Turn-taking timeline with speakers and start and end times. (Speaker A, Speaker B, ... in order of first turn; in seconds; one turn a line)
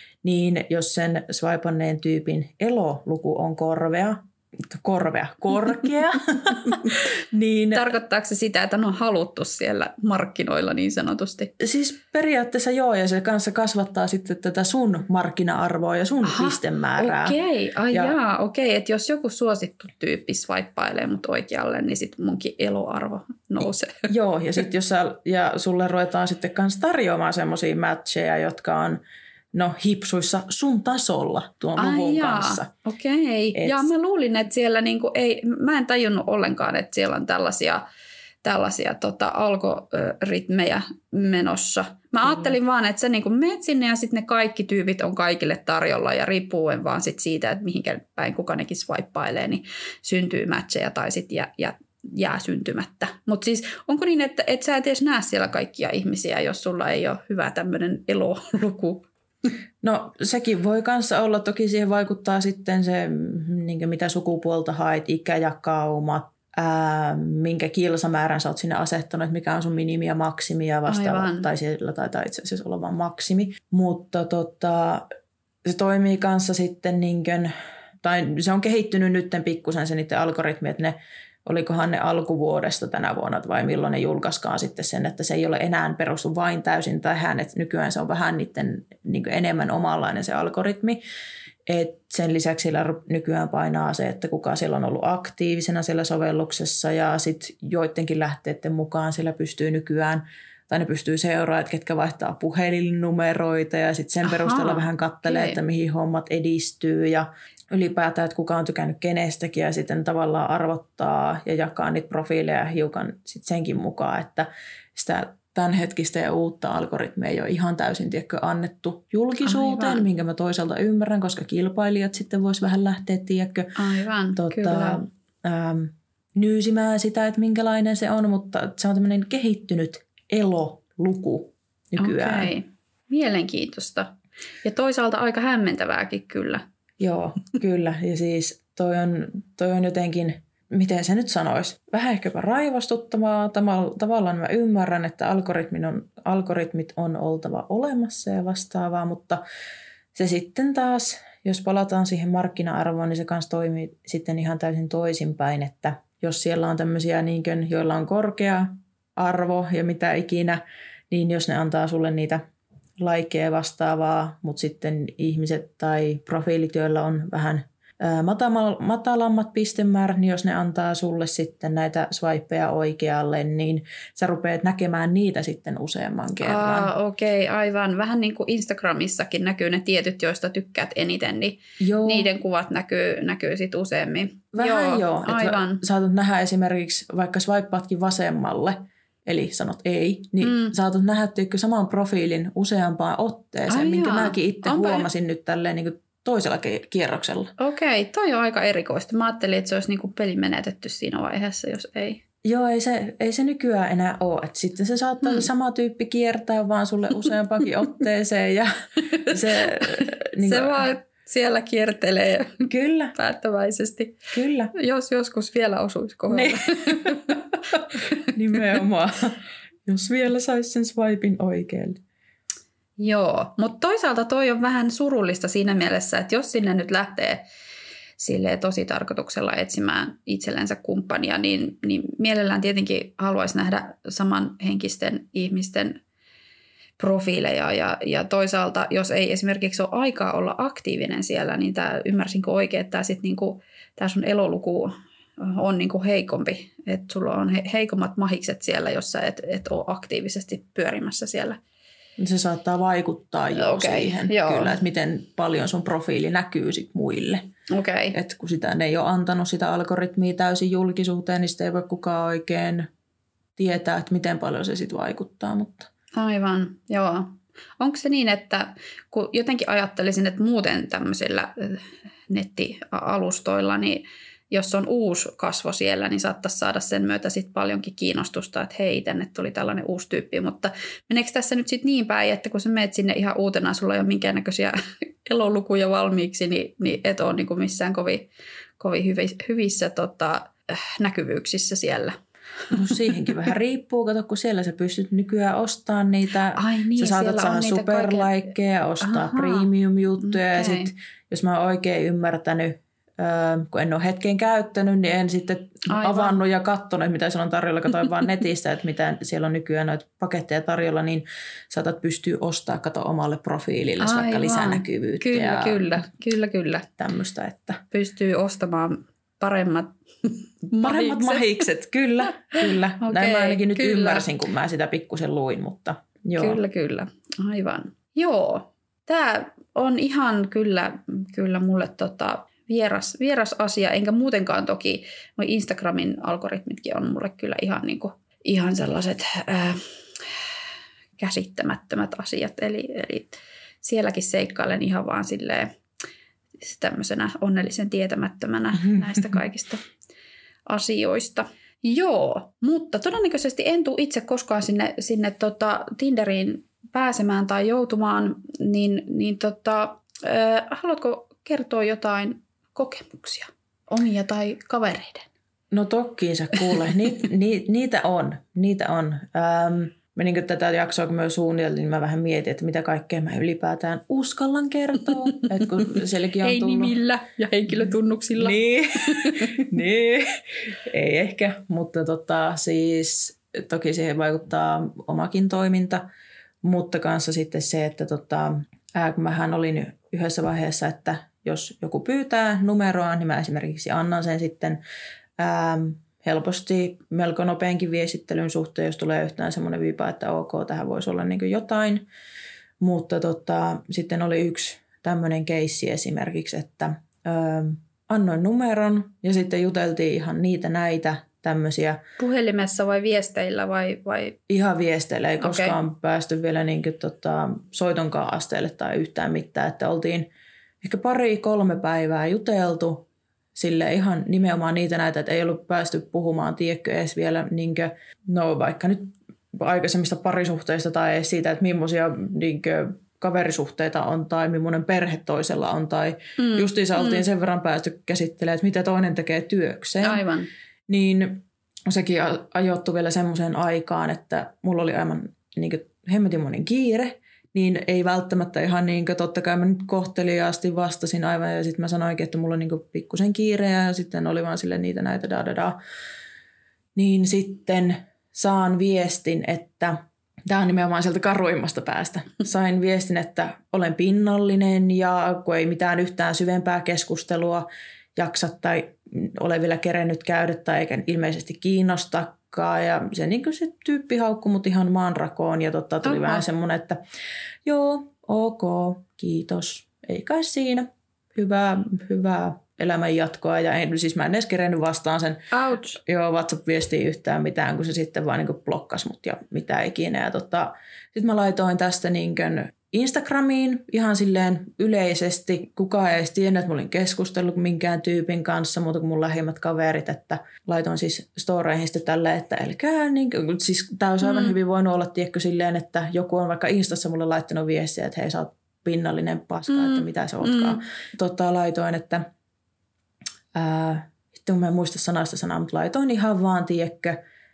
Speaker A: 0.2-7.9
Speaker B: 7.7-11.5
Speaker A: 11.6-17.4
Speaker B: 16.2-24.1
Speaker A: 17.9-18.2
Speaker A: 23.6-29.0
Speaker A: 29.5-32.7
Speaker B: 31.8-37.8
Speaker A: 33.5-33.9
Speaker B: 38.4-59.1
Speaker A: 42.3-42.5
Speaker A: 59.8-75.1
Speaker B: 70.9-71.5
Speaker A: 75.7-91.0
Speaker A: 91.7-123.7
Speaker B: 104.2-105.6
Speaker B: 119.5-120.1
Speaker B: 123.8-125.0
Speaker A: 124.4-132.5
Speaker B: 132.0-136.6
Speaker A: 137.0-149.4
Speaker A: 150.2-162.4
Speaker A: 163.0-176.9
Speaker B: 176.4-185.8
Speaker A: 181.8-182.3
Speaker A: 184.5-197.5
Speaker B: 190.4-190.8
Speaker B: 193.7-195.1
Speaker B: 197.6-202.2
Speaker A: 202.4-210.8
Speaker B: 209.1-217.4
Speaker A: 212.7-213.1
Speaker A: 214.3-214.7
Speaker A: 216.3-222.0
Speaker B: 223.0-227.4
Speaker B: 228.2-236.0
Speaker B: 237.0-251.6
Speaker A: 252.2-257.5
Speaker B: 253.5-254.8
Speaker B: 257.7-258.2
Speaker A: 258.1-262.9
Speaker A: 263.6-265.9
Speaker B: 266.1-288.3
Speaker B: 288.8-293.3
Speaker A: 292.7-316.0
Speaker B: 296.6-298.5
Speaker B: 299.0-300.9
Speaker B: 305.9-306.4
Speaker B: 314.0-316.9
Speaker A: 317.0-317.8
Speaker B: 317.9-321.6
Speaker A: 320.8-326.6
Speaker B: 322.6-324.3
Speaker B: 326.4-339.8
Speaker B: 341.2-345.7
Speaker B: 346.6-349.8
Speaker A: 348.8-349.4
Speaker B: 350.7-365.3
Speaker A: 365.7-376.9
Speaker B: 376.4-379.7
Speaker A: 378.4-386.1
Speaker A: 386.6-394.8
Speaker A: 395.4-402.1
Speaker A: 402.8-412.0
Speaker B: 412.2-414.4
Speaker A: 414.5-420.3
Speaker B: 415.4-415.8
Speaker A: 420.8-440.2
Speaker B: 436.4-437.2
Speaker B: 440.0-440.5
Speaker A: 440.9-455.8
Speaker A: 456.9-477.0
Speaker B: 476.0-476.4
Speaker A: 477.6-485.4
Speaker B: 485.5-486.0
Speaker A: 486.0-512.3
Speaker B: 504.2-504.6
Speaker B: 509.7-510.8
Speaker A: 513.5-517.2